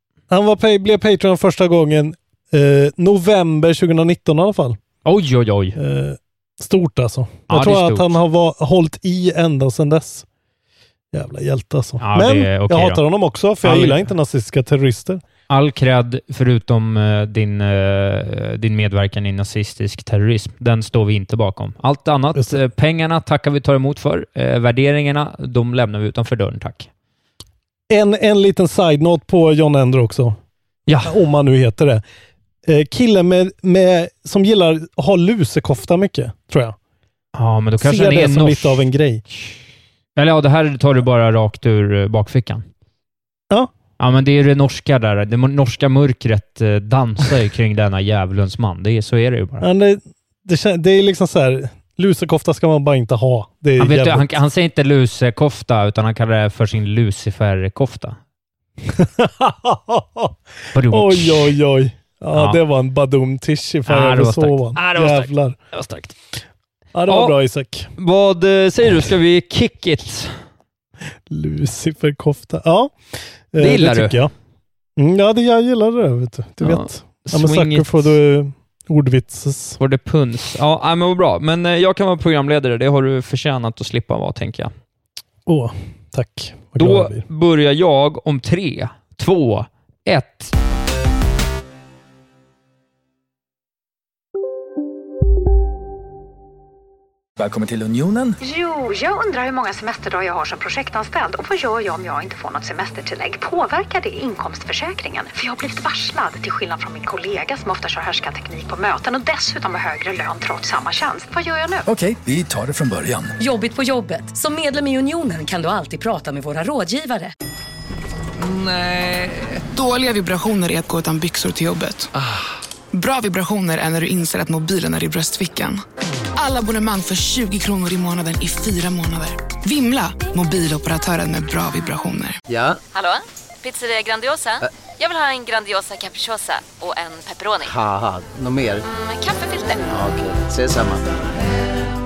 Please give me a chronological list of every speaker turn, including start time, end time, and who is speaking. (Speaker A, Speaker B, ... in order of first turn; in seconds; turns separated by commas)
Speaker A: 0.3-4.8, Speaker B: 5.0-5.8, Speaker A: 5.8-10.2, Speaker B: 7.5-8.2, Speaker A: 11.1-15.2, Speaker B: 12.0-13.0, Speaker B: 13.6-14.1, Speaker B: 15.5-26.9, Speaker A: 27.9-30.4, Speaker B: 30.9-31.1, Speaker A: 31.0-32.0, Speaker A: 32.6-36.8, Speaker B: 37.3-38.9, Speaker A: 37.8-39.2, Speaker B: 40.1-42.6, Speaker B: 44.0-49.7, Speaker A: 49.6-54.3, Speaker B: 53.8-58.2, Speaker A: 58.9-60.3, Speaker B: 60.7-61.5, Speaker A: 60.9-65.5, Speaker B: 62.3-62.6, Speaker B: 63.9-66.1, Speaker A: 66.9-67.9, Speaker B: 67.1-67.3, Speaker B: 68.0-70.4, Speaker A: 71.3-74.3, Speaker B: 73.6-74.2, Speaker A: 75.0-79.8, Speaker B: 76.6-78.2, Speaker B: 79.8-84.7, Speaker A: 85.5-87.2, Speaker B: 86.8-90.5, Speaker C: 97.4-98.4, Speaker D: 98.4-111.8, Speaker C: 111.8-113.3, Speaker E: 113.4-117.3, Speaker C: 118.4-119.6, Speaker F: 119.7-122.1, Speaker F: 122.9-125.8, Speaker F: 126.4-132.4, Speaker G: 132.5-132.8, Speaker H: 132.9-137.7, Speaker G: 137.6-138.8, Speaker H: 139.1-139.8, Speaker G: 139.9-141.0